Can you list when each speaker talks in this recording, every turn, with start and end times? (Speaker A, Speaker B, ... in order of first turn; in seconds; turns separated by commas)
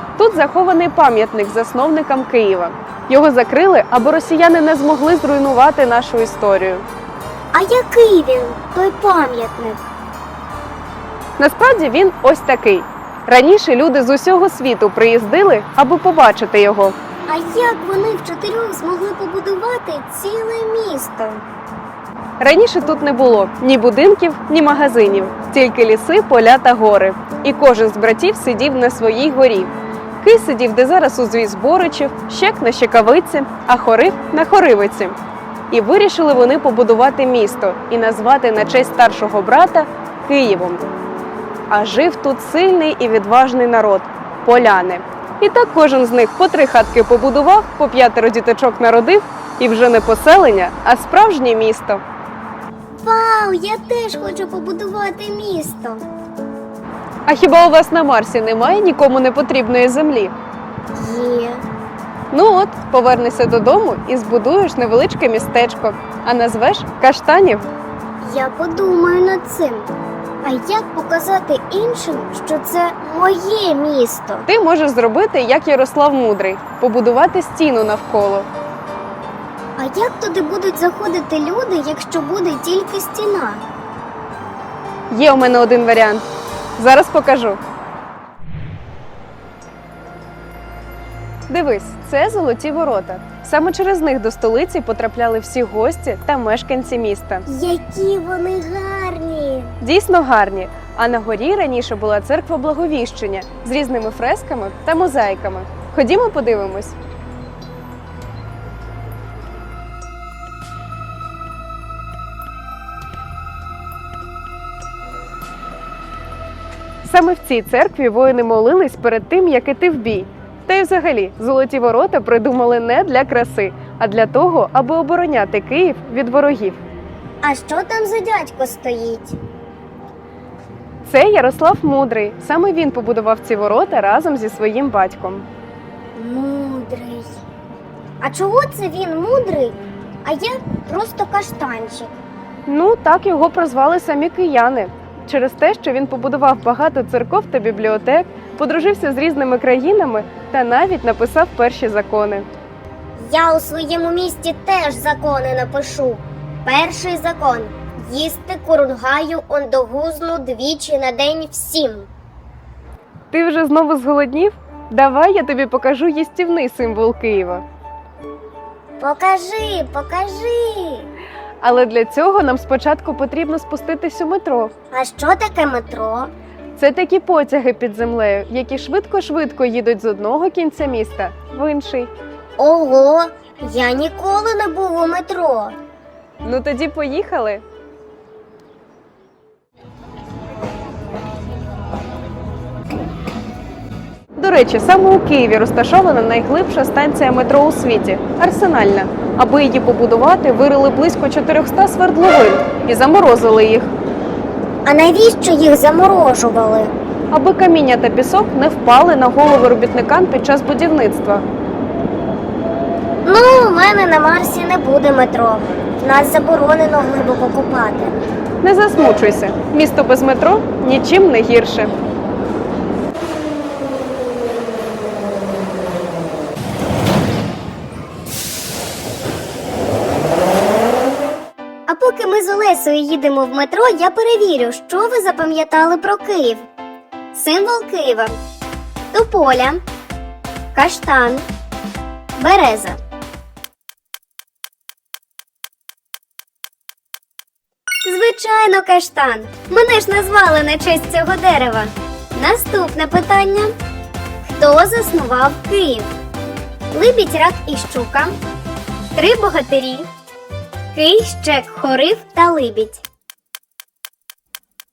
Speaker A: 0.2-6.8, Speaker B: 7.5-9.9, Speaker A: 11.4-16.9, Speaker B: 17.3-21.4, Speaker A: 22.4-35.1, Speaker A: 35.7-40.9, Speaker A: 41.7-52.0, Speaker B: 53.0-56.0, Speaker A: 57.3-60.3, Speaker B: 60.9-61.6, Speaker A: 62.3-67.7, Speaker B: 68.2-69.9, Speaker B: 70.4-74.5, Speaker A: 74.5-78.5, Speaker B: 79.8-83.6, Speaker A: 85.1-86.3, Speaker A: 86.8-87.6, Speaker A: 91.5-97.5, Speaker B: 97.5-99.8, Speaker A: 99.8-107.0, Speaker A: 117.0-126.8, Speaker B: 127.4-129.4, Speaker A: 131.1-135.5, Speaker B: 136.2-137.4, Speaker B: 138.2-142.2, Speaker A: 142.7-152.5, Speaker B: 153.2-162.1, Speaker A: 163.3-167.6, Speaker B: 169.0-171.1, Speaker A: 171.6-174.7, Speaker B: 174.9-176.3, Speaker A: 176.8-182.1, Speaker B: 182.6-185.8, Speaker A: 186.4-187.6, Speaker A: 194.4-203.9, Speaker B: 204.9-206.9, Speaker A: 207.3-211.5, Speaker B: 213.2-218.2, Speaker A: 218.6-221.9, Speaker B: 231.9-236.7, Speaker B: 237.3-238.4, Speaker B: 239.1-239.8, Speaker B: 240.7-241.5, Speaker B: 242.4-243.0, Speaker B: 248.0-253.7, Speaker B: 254.4-256.1, Speaker B: 256.9-258.4, Speaker B: 259.1-260.1, Speaker B: 260.9-263.0